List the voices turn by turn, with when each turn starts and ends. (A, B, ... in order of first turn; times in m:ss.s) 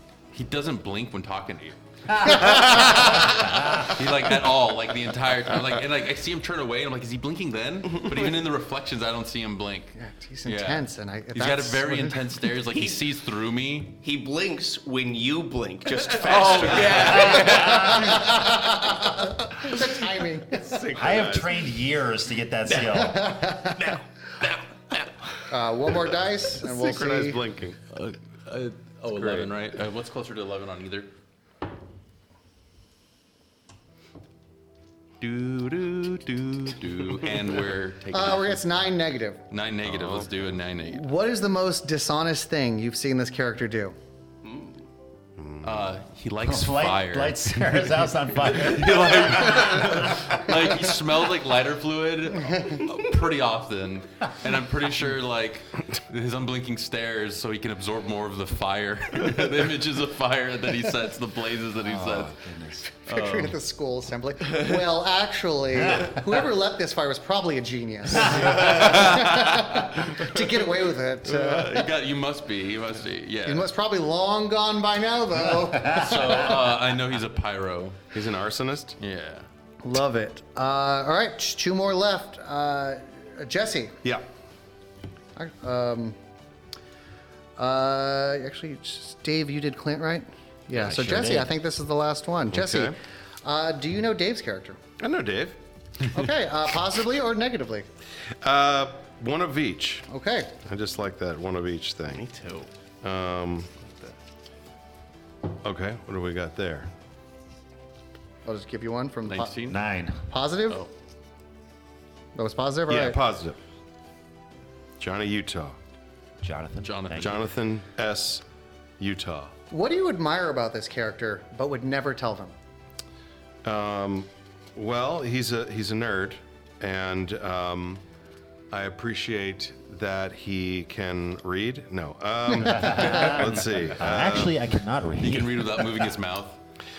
0:00.3-0:09.9 A
0:02.2-0:02.8 B
0:10.0-0:12.2 B
0:10.4-0:13.9 A
0:14.0-0:18.2 C
0:16.2-0:18.0 A
0:17.3-0:18.1 D
0:17.8-0:20.8 B
0:20.6-0:21.5 E
0:20.9-0:23.3 D
0:22.7-0:23.0 C
0:23.0-0:23.9 B
0:23.7-0:25.1 C
0:25.5-0:27.4 B
0:26.6-0:27.8 E
0:27.9-0:31.1 A
0:29.1-0:29.5 E
0:35.2-0:38.6 A
0:38.1-0:39.4 B
0:39.5-0:41.1 A
0:39.8-0:40.2 E
0:40.8-0:43.9 B
0:44.4-0:44.8 C
0:45.4-0:45.9 E
0:45.6-1:02.4 A
0:46.4-0:50.1 D
1:01.8-1:02.8 D
1:03.0-1:03.6 A
1:03.0-1:11.9 B
1:08.8-1:09.3 A
1:11.4-1:13.7 A
1:13.4-1:16.7 B
1:15.8-1:18.1 A
1:18.1-1:19.0 E
1:19.0-1:19.4 A
1:19.8-1:24.0 B
1:25.4-1:26.2 B
1:27.6-1:34.8 B
1:30.7-1:31.5 D
1:32.5-1:32.9 E
1:35.0-1:35.6 E
1:36.1-1:37.9 B
1:38.4-1:40.1 E
1:40.1-1:40.6 B
1:40.6-1:42.2 E
1:42.1-1:42.7 C
1:43.0-1:43.8 E
1:45.6-1:46.9 E
1:48.4-1:49.6 B
1:49.3-1:49.8 A
1:49.7-1:50.2 D
1:50.3-1:50.8 B
1:52.3-1:53.2 B
1:52.9-1:53.6 E
1:55.0-1:55.8 E
1:56.4-1:57.4 D
1:56.8-1:57.4 A
1:57.2-1:58.4 E
1:59.0-1:59.5 E
1:59.7-2:02.5 B
2:03.6-2:08.0 E
2:08.7-2:14.5 E
2:12.7-2:16.0 D
2:15.2-2:16.6 A